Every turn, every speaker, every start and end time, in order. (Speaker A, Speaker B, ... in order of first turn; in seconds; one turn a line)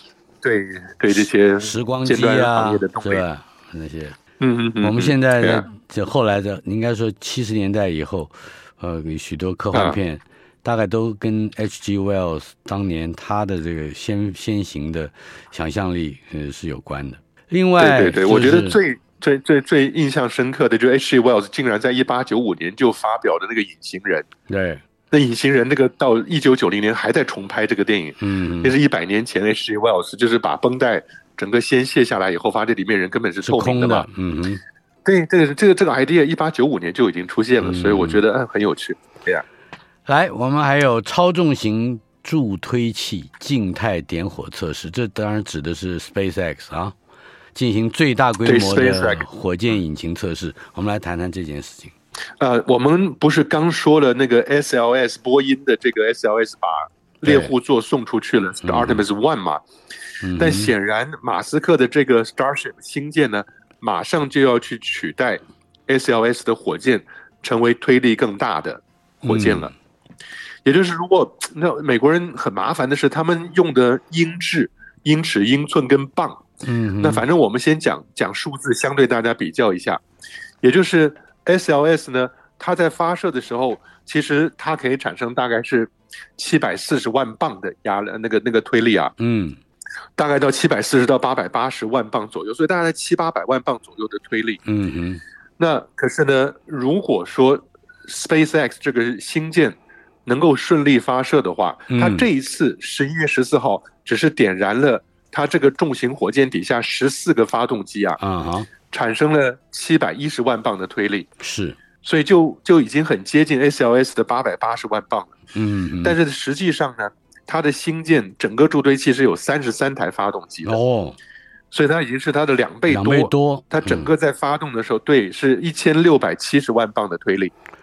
Speaker A: 0.4-3.2
Speaker B: 1.6-4.2
Speaker A: 4.4-5.7
Speaker B: 4.8-18.8
Speaker A: 9.7-10.0
Speaker A: 17.8-24.3
Speaker B: 24.5-24.8
Speaker A: 25.1-34.1
Speaker B: 28.2-28.8
Speaker B: 33.4-34.6
Speaker A: 35.0-39.4
Speaker B: 37.6-38.2
Speaker B: 40.1-47.0
Speaker B: 47.5-51.9
Speaker A: 48.4-49.2
Speaker A: 52.4-59.6
Speaker B: 57.2-57.5
Speaker B: 58.6-59.0
Speaker B: 60.2-60.7
Speaker A: 60.4-69.7
Speaker B: 69.2-69.7
Speaker A: 70.7-76.5
Speaker B: 76.6-77.2
Speaker A: 77.0-80.0
Speaker A: 80.6-89.1
Speaker B: 89.2-89.6
Speaker A: 90.2-94.6
Speaker B: 94.7-95.2
Speaker A: 95.6-108.2
Speaker B: 101.9-102.3
Speaker B: 108.2-108.7
Speaker A: 108.9-111.3
Speaker B: 111.4-111.8
Speaker A: 112.0-115.4
Speaker B: 115.5-116.2
Speaker A: 116.0-120.8
Speaker B: 120.7-121.2
Speaker A: 121.7-127.5
Speaker B: 122.9-124.1